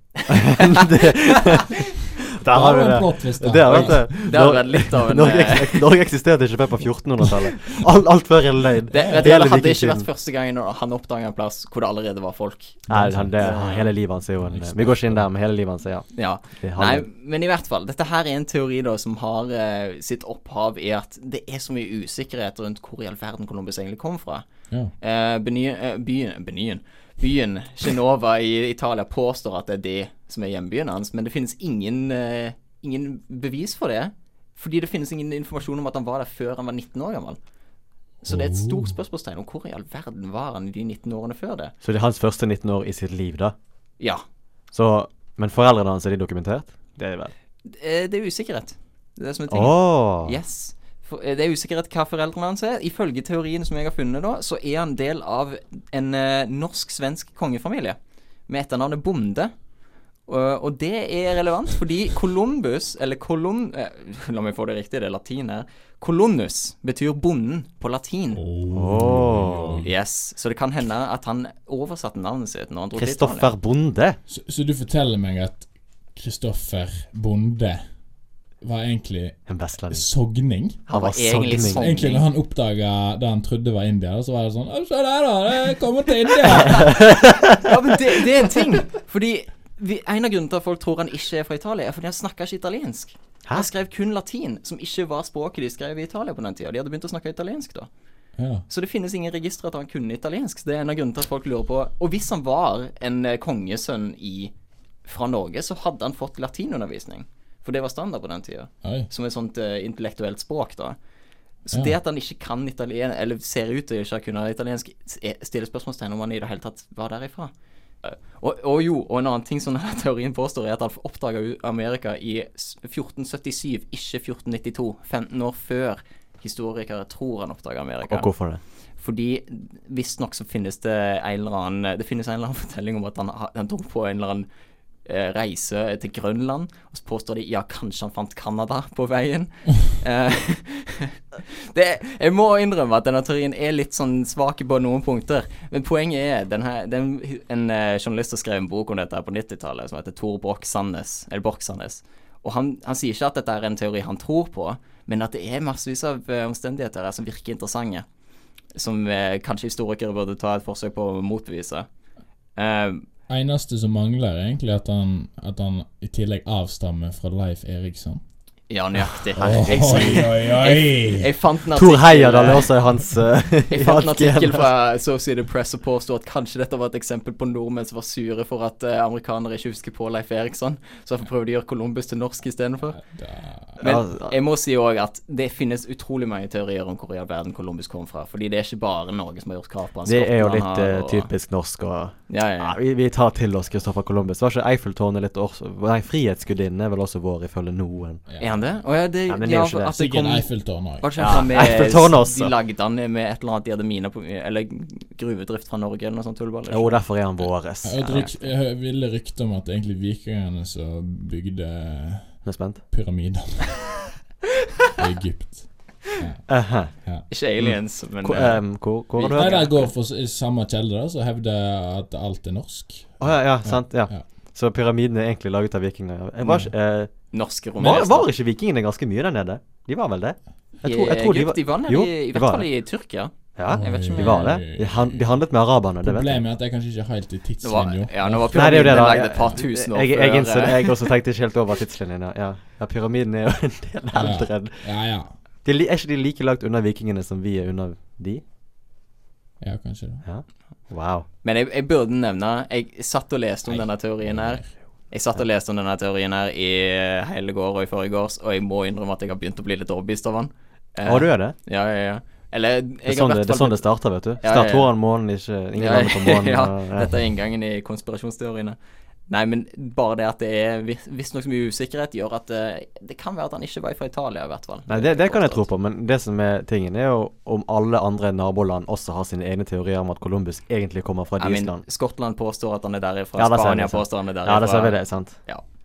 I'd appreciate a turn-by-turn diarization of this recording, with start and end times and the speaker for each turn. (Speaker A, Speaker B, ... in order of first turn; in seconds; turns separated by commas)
Speaker A: 0.3-10.1, Speaker B: 0.6-0.8, Speaker C: 2.5-4.2, Speaker B: 3.7-5.9, Speaker B: 8.9-12.8, Speaker C: 8.9-9.3, Speaker C: 12.9-13.4, Speaker A: 12.9-17.1, Speaker B: 13.4-13.9, Speaker C: 14.4-15.2, Speaker B: 16.1-24.4, Speaker B: 25.0-37.4, Speaker B: 38.2-41.7, Speaker C: 38.3-38.9, Speaker A: 41.8-43.5, Speaker A: 44.7-47.3, Speaker B: 47.6-58.0, Speaker A: 49.5-50.4, Speaker B: 58.5-59.5, Speaker B: 60.3-68.4, Speaker C: 68.3-69.9, Speaker A: 68.7-69.8, Speaker B: 69.8-73.5, Speaker A: 73.0-74.2, Speaker C: 74.3-77.8, Speaker C: 78.6-80.8, Speaker A: 79.5-80.1, Speaker B: 80.9-82.2, Speaker A: 80.9-81.8, Speaker C: 81.7-87.1, Speaker A: 86.7-87.7, Speaker B: 87.5-97.9, Speaker C: 98.4-98.7, Speaker B: 98.7-104.5, Speaker B: 105.0-111.0, Speaker C: 108.8-109.1, Speaker B: 111.7-117.5, Speaker B: 118.0-128.3, Speaker A: 128.1-128.6, Speaker B: 129.0-134.5, Speaker B: 135.1-158.1, Speaker B: 158.8-161.9, Speaker B: 162.6-163.1, Speaker C: 163.3-168.2, Speaker B: 168.7-172.7, Speaker A: 169.4-170.3, Speaker C: 169.4-171.3, Speaker A: 171.7-174.7, Speaker B: 173.7-183.0, Speaker C: 183.0-183.8, Speaker A: 183.8-184.3, Speaker B: 183.8-191.3, Speaker A: 190.1-198.2, Speaker B: 192.3-192.8, Speaker C: 198.3-198.7, Speaker B: 198.4-207.0, Speaker A: 199.3-199.9, Speaker C: 200.0-201.4, Speaker A: 201.2-202.5, Speaker A: 206.7-208.3, Speaker C: 207.8-214.1, Speaker B: 208.0-208.3, Speaker A: 212.4-212.8, Speaker C: 214.9-217.2, Speaker A: 216.5-216.9, Speaker B: 217.3-218.6, Speaker A: 218.2-219.8, Speaker B: 219.1-219.9, Speaker C: 219.3-224.2, Speaker A: 223.2-227.1, Speaker C: 226.4-226.7, Speaker B: 227.3-228.3, Speaker A: 227.8-232.7, Speaker B: 230.8-234.6, Speaker A: 233.6-236.4, Speaker C: 233.7-235.2, Speaker C: 236.0-239.3, Speaker B: 237.6-241.1, Speaker A: 238.5-244.8, Speaker C: 244.1-245.3, Speaker A: 245.6-248.4, Speaker C: 249.6-250.2, Speaker A: 250.2-251.3, Speaker B: 251.4-263.9, Speaker C: 253.7-254.7, Speaker A: 261.1-261.6, Speaker A: 263.1-267.1, Speaker B: 264.4-264.9, Speaker B: 265.8-268.8, Speaker B: 269.3-275.6, Speaker A: 274.9-281.8, Speaker B: 281.4-285.6, Speaker A: 283.4-285.4